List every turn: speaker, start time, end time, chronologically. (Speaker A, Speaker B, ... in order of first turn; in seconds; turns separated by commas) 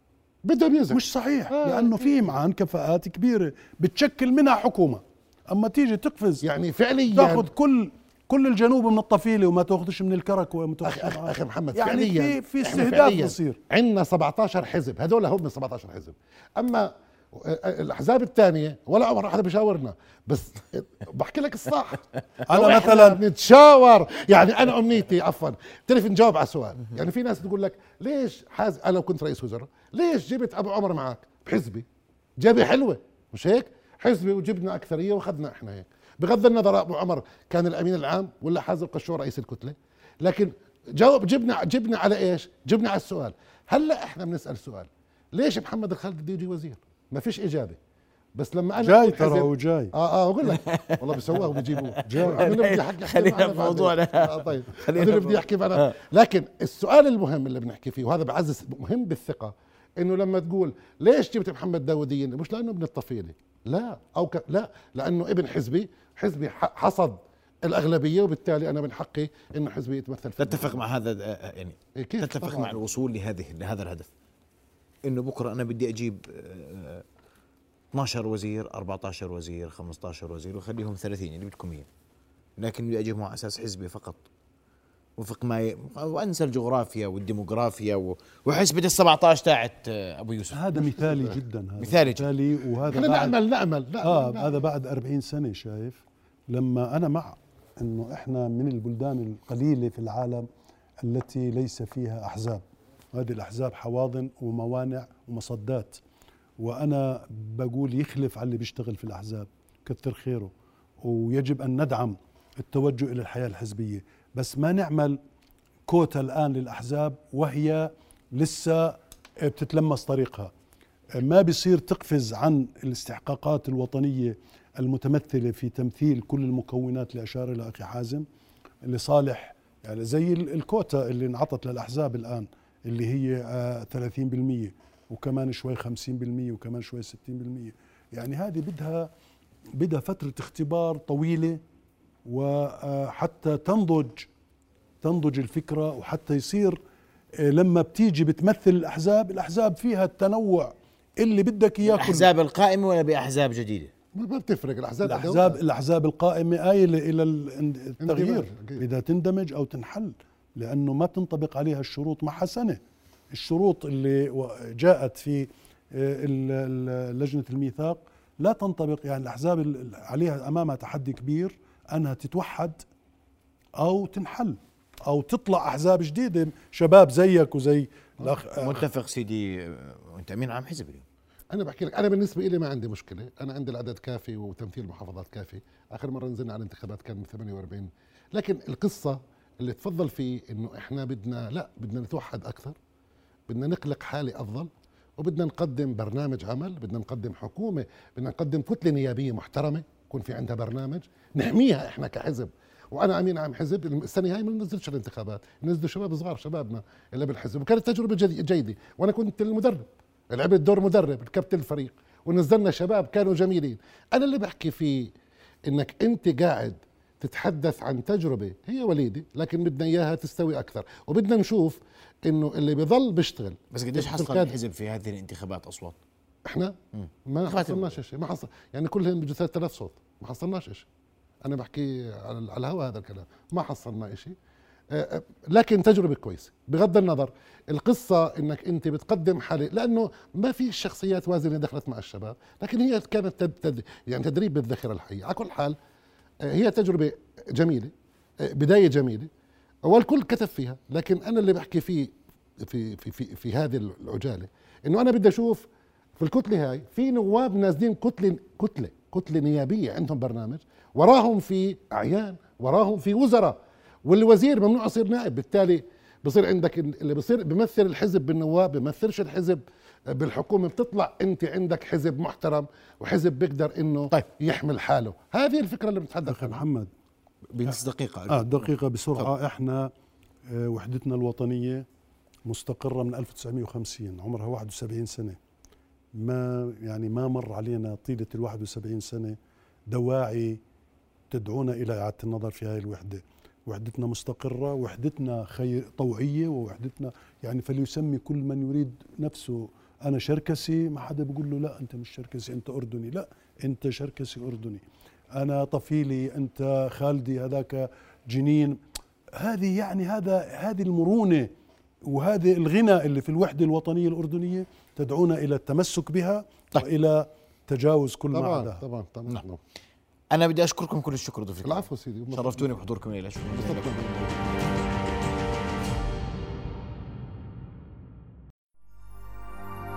Speaker A: 0.4-2.3, Speaker B: 0.9-6.5, Speaker A: 6.4-7.5, Speaker B: 7.1-13.6, Speaker A: 10.8-31.9, Speaker B: 22.5-23.2, Speaker A: 32.4-47.8, Speaker A: 48.4-70.8, Speaker B: 48.8-49.9, Speaker C: 50.5-56.0, Speaker B: 52.1-52.5, Speaker C: 70.4-74.1, Speaker A: 72.0-72.8, Speaker C: 75.0-77.0, Speaker C: 77.9-81.9, Speaker C: 82.6-84.3, Speaker C: 85.2-91.0, Speaker B: 90.5-93.3, Speaker C: 91.8-92.3, Speaker A: 92.9-94.6, Speaker B: 94.0-100.5, Speaker B: 101.0-102.6, Speaker B: 103.1-106.0, Speaker B: 106.6-115.2, Speaker B: 115.9-120.5, Speaker B: 121.2-128.3, Speaker B: 128.8-139.1, Speaker B: 139.8-141.6, Speaker B: 142.2-144.3, Speaker B: 145.0-146.8, Speaker B: 147.4-152.3, Speaker C: 151.9-153.9, Speaker A: 154.2-155.6, Speaker B: 155.0-162.8, Speaker A: 158.0-158.8, Speaker B: 163.3-172.8, Speaker B: 173.8-178.8, Speaker C: 178.6-181.0, Speaker A: 181.5-192.8, Speaker A: 193.5-215.1, Speaker A: 215.7-224.6, Speaker C: 223.7-226.0, Speaker A: 226.5-226.8, Speaker C: 226.9-227.9, Speaker A: 227.3-230.9, Speaker A: 231.4-234.3, Speaker A: 234.9-245.8, Speaker A: 246.4-247.9, Speaker A: 248.4-249.3, Speaker A: 249.8-255.7, Speaker A: 256.2-276.6, Speaker B: 276.3-276.9, Speaker C: 277.5-279.3, Speaker B: 278.3-279.9, Speaker B: 280.5-281.9, Speaker B: 282.5-285.4, Speaker B: 286.2-289.4, Speaker B: 289.9-290.6, Speaker B: 291.3-304.8, Speaker B: 305.4-308.8, Speaker B: 309.4-311.5, Speaker B: 312.1-318.8, Speaker A: 318.3-319.6, Speaker C: 320.3-324.6, Speaker A: 321.6-322.8, Speaker A: 323.5-324.3